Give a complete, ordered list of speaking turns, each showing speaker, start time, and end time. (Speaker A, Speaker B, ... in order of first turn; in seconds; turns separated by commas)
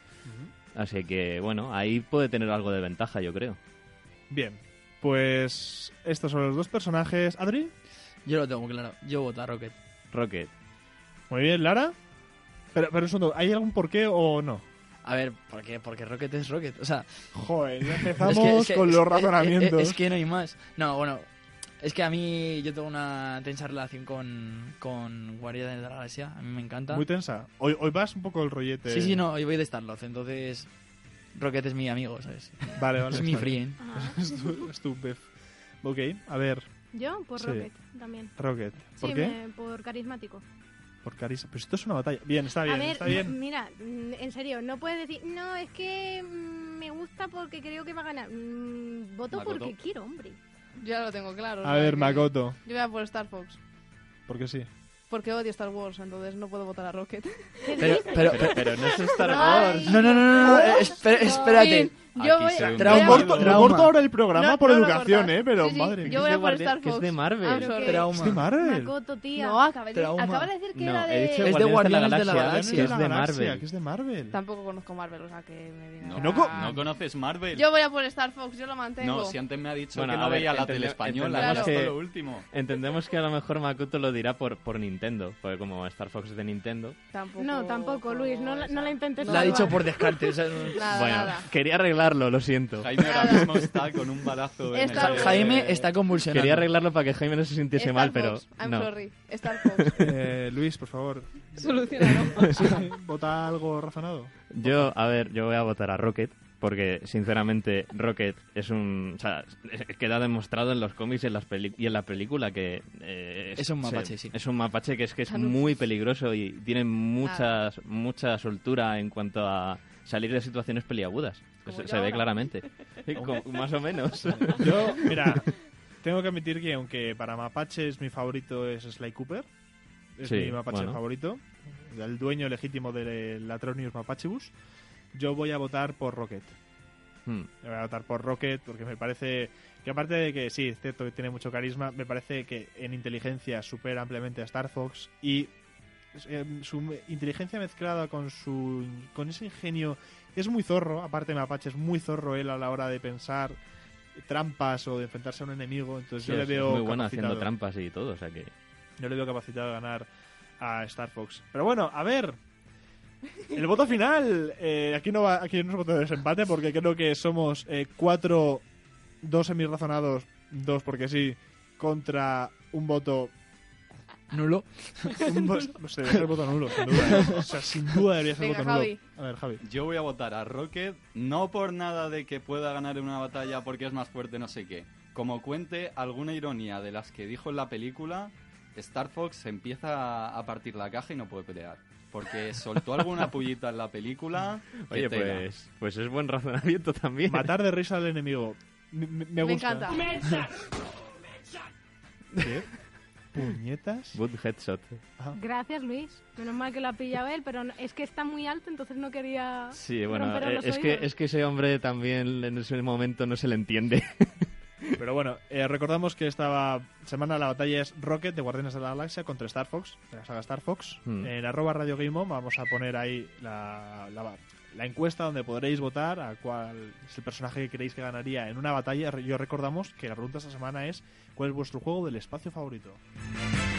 Speaker A: 0.3-0.5, Speaker B: 0.8-3.6, Speaker A: 4.3-7.7, Speaker C: 8.2-9.7, Speaker B: 10.1-10.5, Speaker A: 11.3-11.9, Speaker A: 12.7-14.7, Speaker C: 15.0-17.1, Speaker A: 17.3-20.0, Speaker C: 17.9-21.3, Speaker C: 21.8-27.0, Speaker A: 26.9-29.2, Speaker C: 28.9-30.7, Speaker C: 31.4-33.8, Speaker A: 32.8-35.3, Speaker D: 33.8-34.5, Speaker A: 35.8-36.7, Speaker D: 36.9-38.3, Speaker A: 37.4-37.7, Speaker A: 38.4-39.4, Speaker D: 39.0-40.4, Speaker A: 41.0-43.4, Speaker D: 42.6-50.4, Speaker E: 49.3-49.7, Speaker F: 50.8-53.6, Speaker A: 51.6-52.6, Speaker A: 54.3-54.7, Speaker F: 55.1-57.8, Speaker D: 57.6-59.2, Speaker C: 57.8-58.5, Speaker B: 58.1-60.3, Speaker F: 59.1-63.6, Speaker D: 59.8-61.0, Speaker C: 59.9-61.9, Speaker A: 60.2-60.9, Speaker E: 62.1-63.8, Speaker A: 62.6-66.2, Speaker C: 62.9-64.0, Speaker F: 64.2-68.3, Speaker B: 66.0-67.8, Speaker D: 67.4-69.8, Speaker C: 67.9-68.4, Speaker A: 68.1-69.0, Speaker F: 69.3-71.7, Speaker C: 70.0-70.5, Speaker B: 70.7-73.6, Speaker C: 71.4-72.6, Speaker A: 71.8-74.4, Speaker F: 74.3-76.9, Speaker E: 76.0-77.7, Speaker A: 76.2-76.9, Speaker F: 77.5-79.4, Speaker E: 79.0-82.5, Speaker B: 79.9-87.0, Speaker F: 81.3-81.8, Speaker F: 87.1-91.5, Speaker D: 87.4-90.0, Speaker C: 89.3-90.6, Speaker B: 90.9-93.6, Speaker E: 92.8-95.9, Speaker F: 93.0-93.6, Speaker F: 94.7-95.4, Speaker C: 95.0-96.7, Speaker A: 95.3-95.8, Speaker B: 96.2-98.9, Speaker F: 97.7-100.0, Speaker B: 99.6-99.9, Speaker A: 100.0-101.7, Speaker F: 101.5-102.9, Speaker A: 102.3-104.3, Speaker B: 104.5-125.4, Speaker C: 113.6-114.3, Speaker F: 115.3-115.8, Speaker F: 117.2-117.5, Speaker F: 121.7-122.5, Speaker A: 124.3-125.5, Speaker A: 126.0-129.5, Speaker A: 130.2-134.5, Speaker B: 130.2-131.0, Speaker A: 135.2-136.6, Speaker A: 137.6-145.5, Speaker A: 146.2-153.6, Speaker A: 154.2-157.5, Speaker B: 156.2-158.5, Speaker A: 159.0-160.1, Speaker A: 160.6-162.4, Speaker A: 163.5-168.6, Speaker A: 169.2-173.3, Speaker C: 174.3-175.2, Speaker A: 175.2-179.6, Speaker F: 178.3-179.0, Speaker E: 179.6-195.5, Speaker B: 194.8-197.6, Speaker A: 197.3-199.9, Speaker F: 199.4-200.2, Speaker A: 202.4-202.7, Speaker A: 203.3-204.2, Speaker B: 204.1-205.0, Speaker D: 205.3-211.1, Speaker B: 209.7-214.5, Speaker A: 215.0-233.0